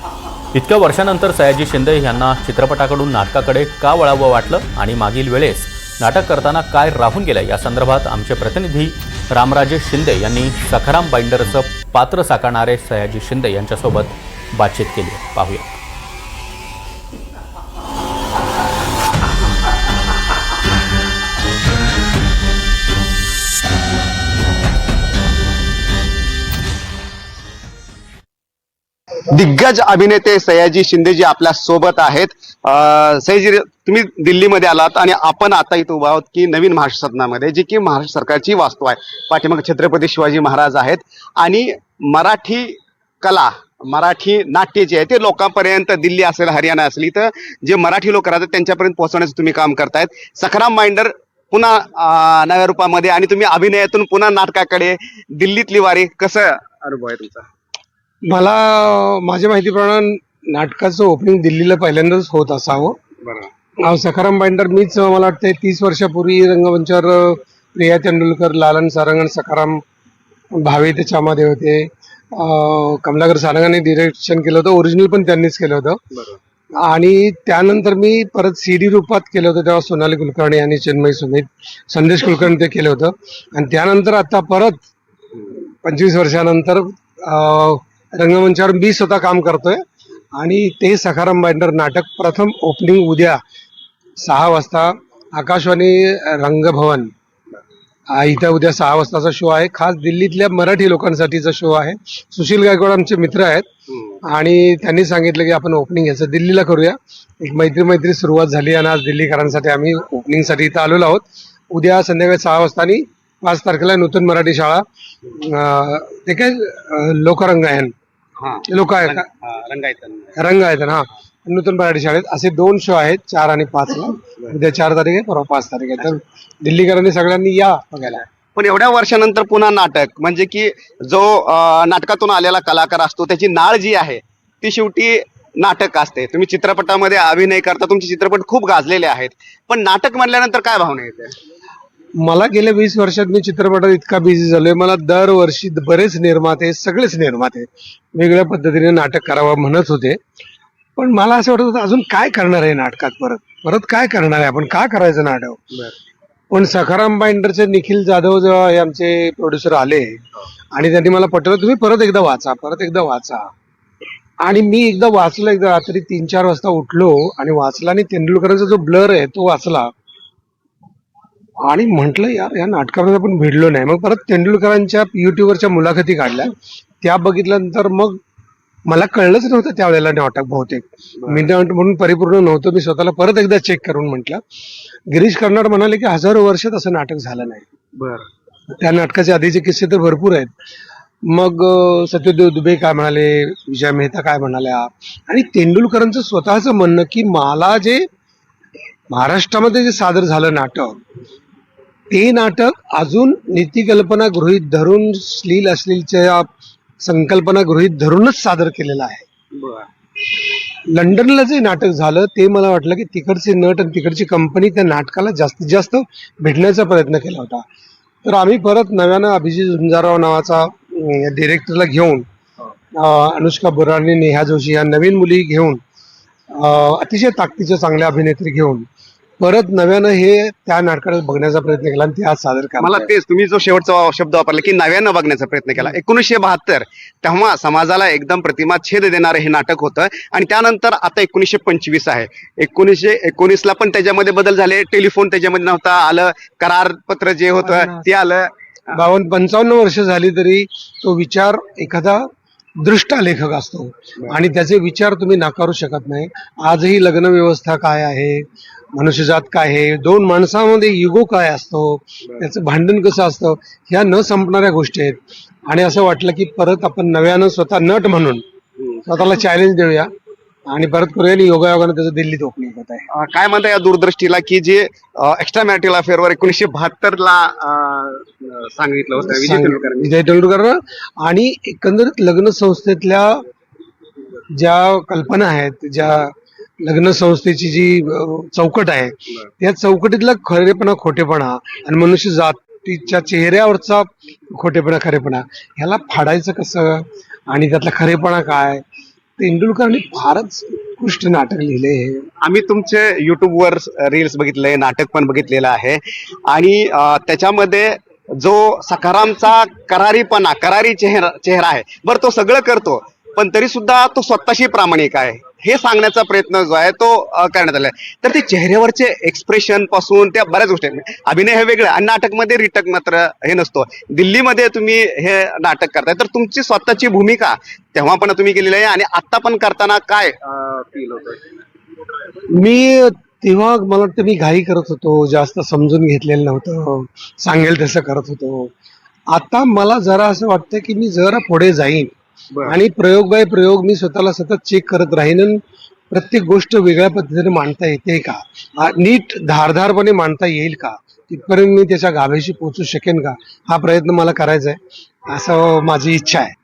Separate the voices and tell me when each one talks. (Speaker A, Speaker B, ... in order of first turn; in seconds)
Speaker A: 0.5-15.7
Speaker B: 29.3-57.5, 118.4-120.4, 128.6-141.3, 181.2-181.5, 188.0-188.3, 209.6-209.9, 232.8-249.0, 273.1-280.1, 302.4-331.6
Speaker C: 58.3-63.0, 63.8-69.8, 70.5-76.0, 76.8-84.9, 85.8-89.8, 90.4-93.4, 94.2-97.1, 98.1-103.7, 104.2-117.9, 118.7-119.3, 120.4-128.2, 142.2-150.2, 151.0-155.9, 156.5-160.2, 160.7-163.5, 164.4-169.9, 171.7-178.2, 178.9-184.4, 185.1-187.7, 188.8-190.5, 191.3-198.0, 199.1-201.0, 202.1-206.5, 207.0-209.3, 210.9-217.6, 218.2-222.2, 222.9-225.8, 226.5-228.9, 229.4-233.1, 247.6-248.1, 248.9-252.3, 252.8-268.4, 269.1-270.1, 270.7-273.1, 279.2-283.4, 284.6-298.8, 299.4-302.3, 332.5-338.7, 339.3-342.1, 342.6-356.5